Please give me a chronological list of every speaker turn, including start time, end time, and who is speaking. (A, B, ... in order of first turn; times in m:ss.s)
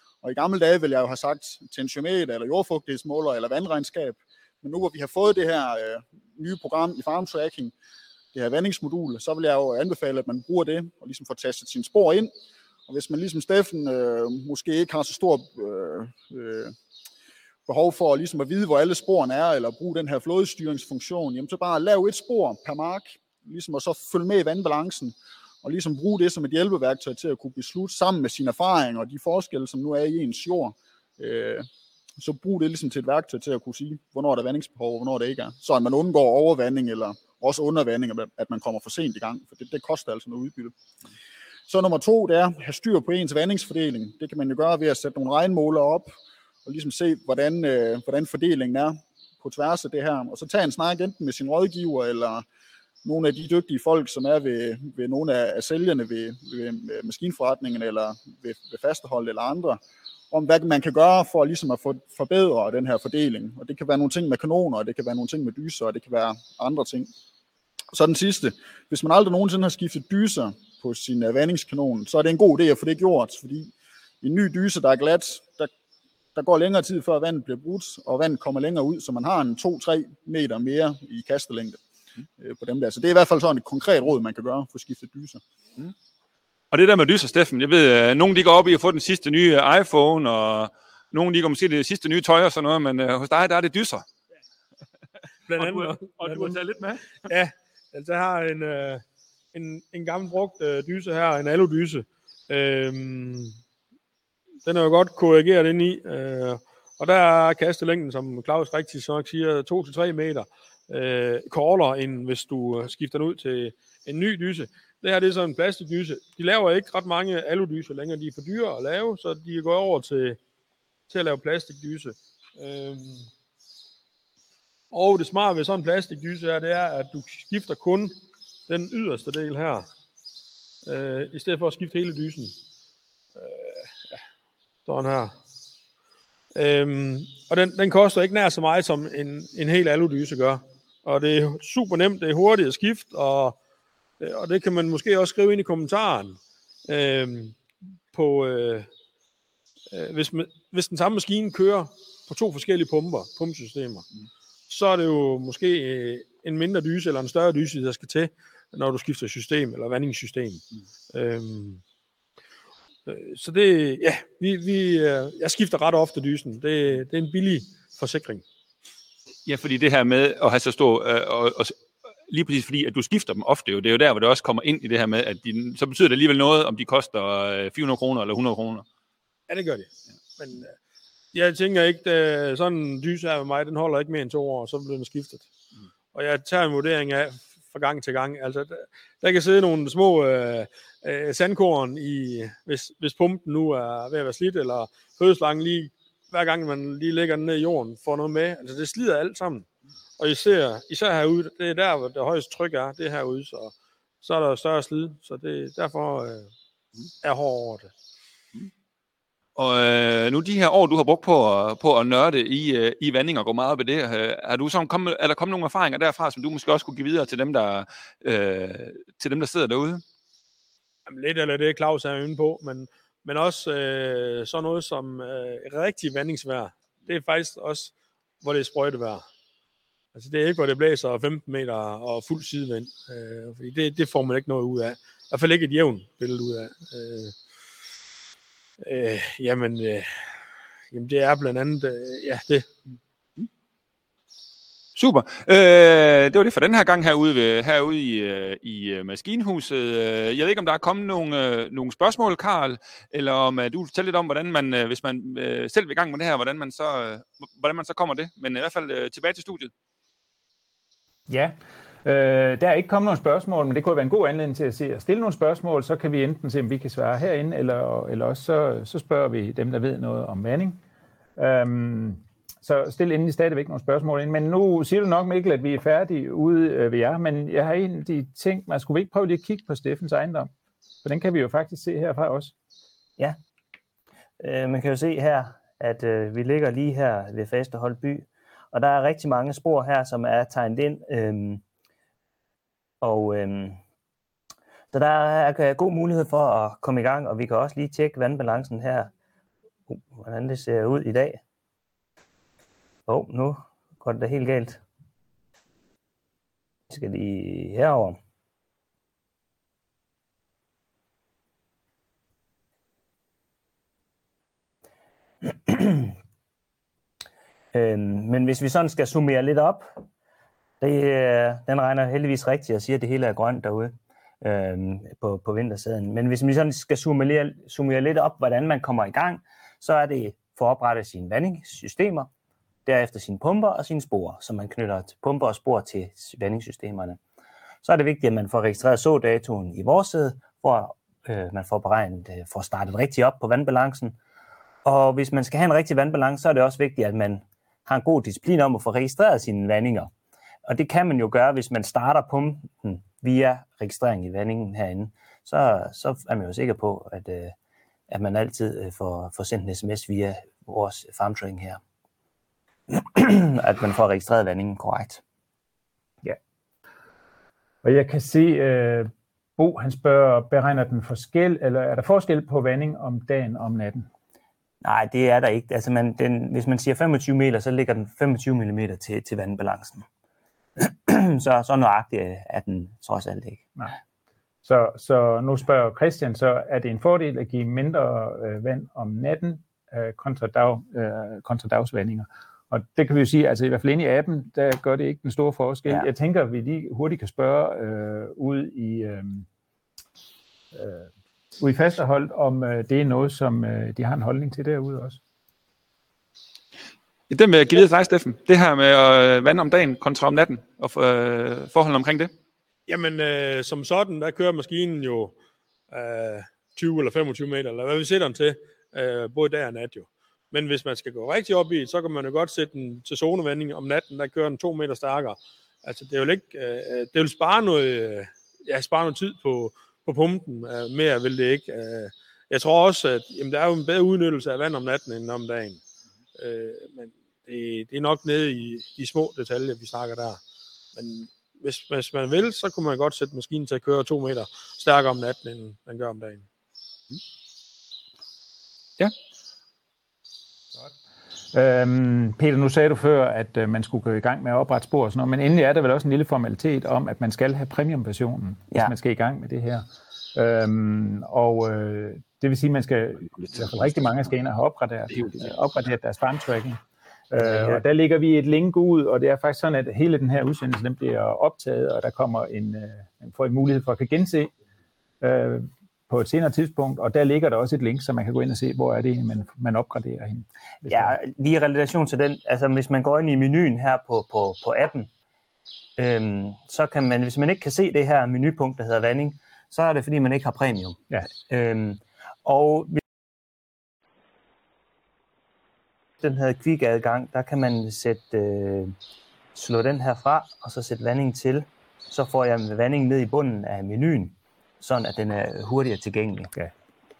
0:00.2-0:07.7 A
0:08.3-0:12.3 A
0:12.9-0:16.7 A
0:17.7-0:31.7 A
0:32.2-0:40.8 A
0:41.7-0:46.1 A
0:46.6-0:52.4 A
0:53.0-0:59.8 A
1:00.3-1:07.1 A
1:07.9-1:13.7 A
1:14.2-1:15.7 A
1:16.3-1:21.8 A
1:22.4-1:25.4 A
1:26.7-1:34.0 B
1:35.5-1:36.6 C
1:35.5-1:37.1 B
1:37.2-1:43.6 C
1:44.6-2:00.4 C
2:01.1-2:03.3 C
2:04.9-2:08.2 C
2:08.7-2:09.9 C
2:10.8-2:12.6 C
2:13.4-2:13.9 C
2:14.8-2:15.3 C
2:16.6-2:23.6 C
2:24.2-2:27.6 C
2:28.1-2:28.9 C
2:29.9-2:34.1 C
2:34.7-2:41.8 C
2:43.1-2:48.4 C
2:49.5-2:51.8 B
2:52.3-2:58.8 B
2:59.5-3:00.7 C
3:01.3-3:05.5 C
3:06.1-3:19.7 C
3:20.2-3:26.5 C
3:27.2-3:27.9 C
3:29.6-3:40.0 B
3:41.1-3:49.2 C
3:50.1-3:57.4 C
3:58.8-4:00.3 C
4:00.9-4:02.7 C
4:05.0-4:19.7 B
4:21.3-4:30.8 D
4:31.4-4:40.5 D
4:41.0-4:42.5 D
4:44.4-4:51.6 E
4:53.0-4:53.8 E
4:54.9-4:59.1 E
4:59.9-5:01.4 E
5:03.1-5:04.8 E
5:06.9-5:08.2 E
5:15.4-5:16.1 E
5:17.7-5:19.9 E
5:20.8-5:32.3 E
5:32.9-5:37.2 E
5:37.8-5:44.2 E
5:44.8-5:50.1 E
5:50.7-5:57.6 E
5:58.1-6:01.8 E
6:02.9-6:05.2 E
6:07.8-6:14.1 D
6:14.8-6:20.1 E
6:20.8-6:23.7 E
6:24.6-6:39.5 D
6:40.7-6:45.2 D
6:47.3-6:52.3 B
6:52.9-6:55.4 C
6:55.9-7:15.8 C
7:16.4-7:20.4 C
7:21.0-7:26.4 C
7:31.5-7:54.5 D
7:47.4-7:47.8 E
7:55.2-8:01.2 D
8:00.9-8:05.1 E
8:06.0-8:13.0 E
8:16.2-8:19.0 E
8:19.6-8:26.5 E